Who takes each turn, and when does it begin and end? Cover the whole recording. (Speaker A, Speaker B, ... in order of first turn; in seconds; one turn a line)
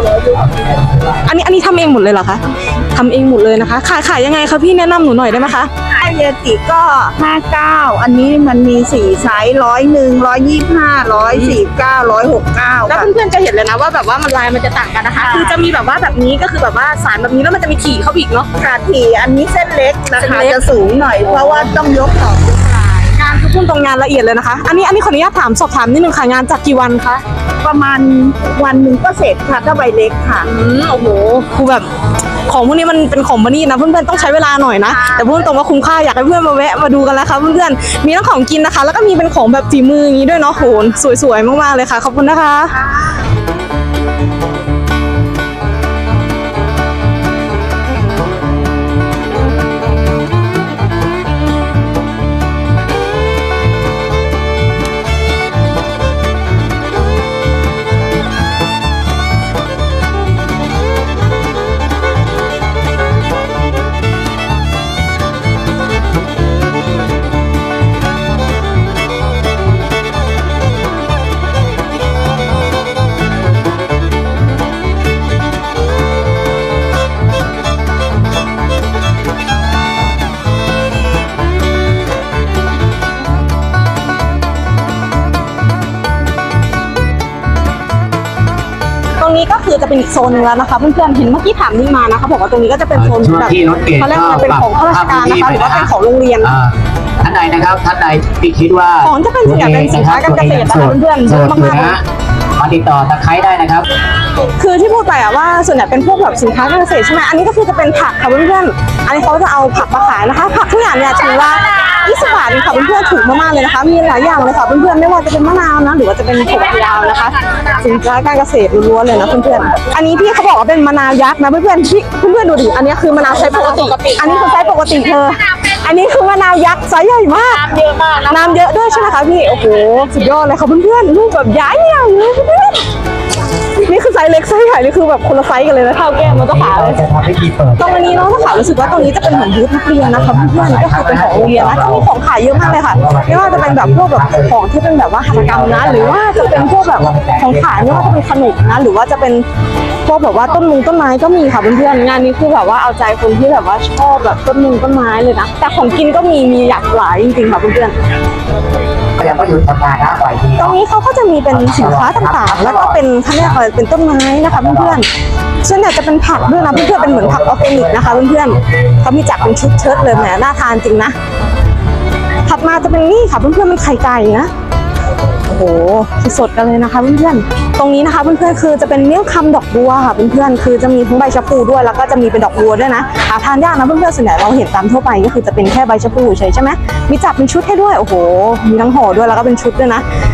Speaker A: 0.3-1.1
Speaker B: 1.2-5.7
Speaker C: 5.9-13.1
Speaker B: 11.3-11.6
Speaker B: 12.9-18.5
Speaker C: 15.2-15.6
Speaker C: 18.6-23.1
Speaker B: 20.2-20.6
Speaker B: 21.3-21.6
Speaker B: 23.2-27.2
Speaker C: 27.6-30.5
Speaker B: 30.5-31.9
Speaker B: 32.5-42.8
Speaker C: 35.0-35.2
Speaker B: 89.2-96.5
Speaker A: 93.0-102.0
Speaker B: 99.0-102.0
Speaker A: 102.6-103.8
Speaker B: 104.6-127.7
Speaker C: 123.3-124.6
Speaker C: 127.5-128.6
Speaker B: 128.3-132.8
Speaker B: 133.8-137.0
Speaker A: 136.2-144.6
Speaker B: 137.8-149.4
Speaker A: 145.3-148.8
Speaker B: 150.1-157.9
Speaker A: 159.2-160.8
Speaker B: 160.6-165.1
Speaker A: 161.5-163.6
Speaker A: 164.5-165.0
Speaker B: 165.6-171.2
Speaker A: 166.3-170.3
Speaker B: 172.5-174.5
Speaker B: 175.5-190.0